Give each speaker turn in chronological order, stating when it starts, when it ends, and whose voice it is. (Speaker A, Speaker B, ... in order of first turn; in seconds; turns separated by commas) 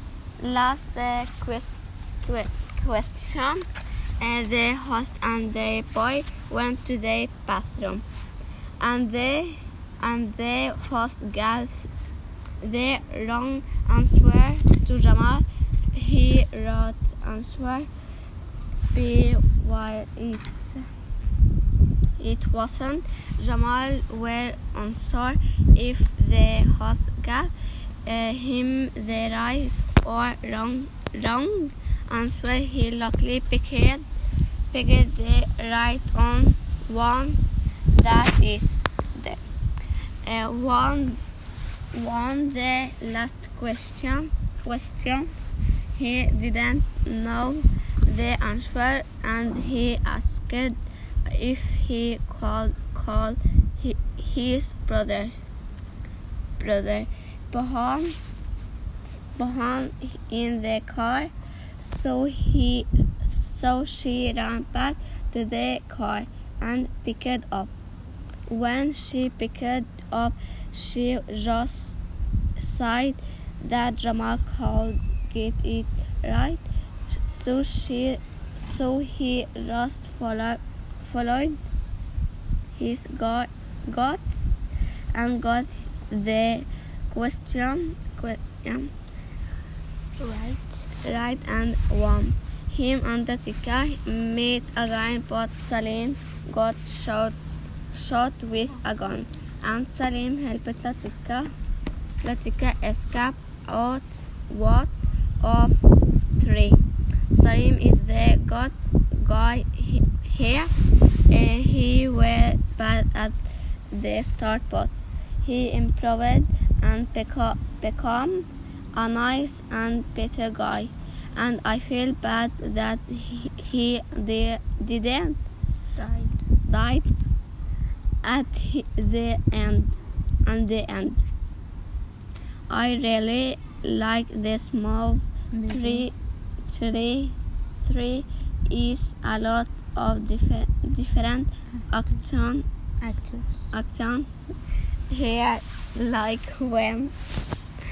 Speaker A: 0.4-3.6, Speaker A: 4.2-8.0, Speaker A: 8.8-11.9, Speaker A: 12.6-17.9, Speaker A: 18.9-20.9, Speaker A: 22.2-27.5, Speaker A: 28.0-34.0, Speaker A: 34.7-39.4, Speaker A: 40.2-41.2, Speaker A: 41.9-45.3, Speaker A: 45.9-55.4, Speaker A: 56.6-58.2, Speaker A: 59.4-67.7, Speaker A: 68.5-72.0, Speaker A: 72.6-76.6, Speaker A: 77.2-81.6, Speaker A: 82.8-84.6, Speaker A: 85.1-88.9, Speaker B: 90.2-90.9, Speaker A: 91.0-97.4, Speaker A: 97.9-101.5, Speaker A: 102.2-105.8, Speaker A: 106.3-110.7, Speaker A: 111.3-113.4, Speaker A: 113.9-125.4, Speaker B: 126.0-126.5, Speaker A: 126.6-127.1, Speaker A: 128.2-131.2, Speaker A: 132.7-136.1, Speaker B: 135.5-136.1, Speaker A: 136.7-142.7, Speaker B: 143.0-143.7, Speaker A: 143.7-144.5, Speaker A: 145.1-147.1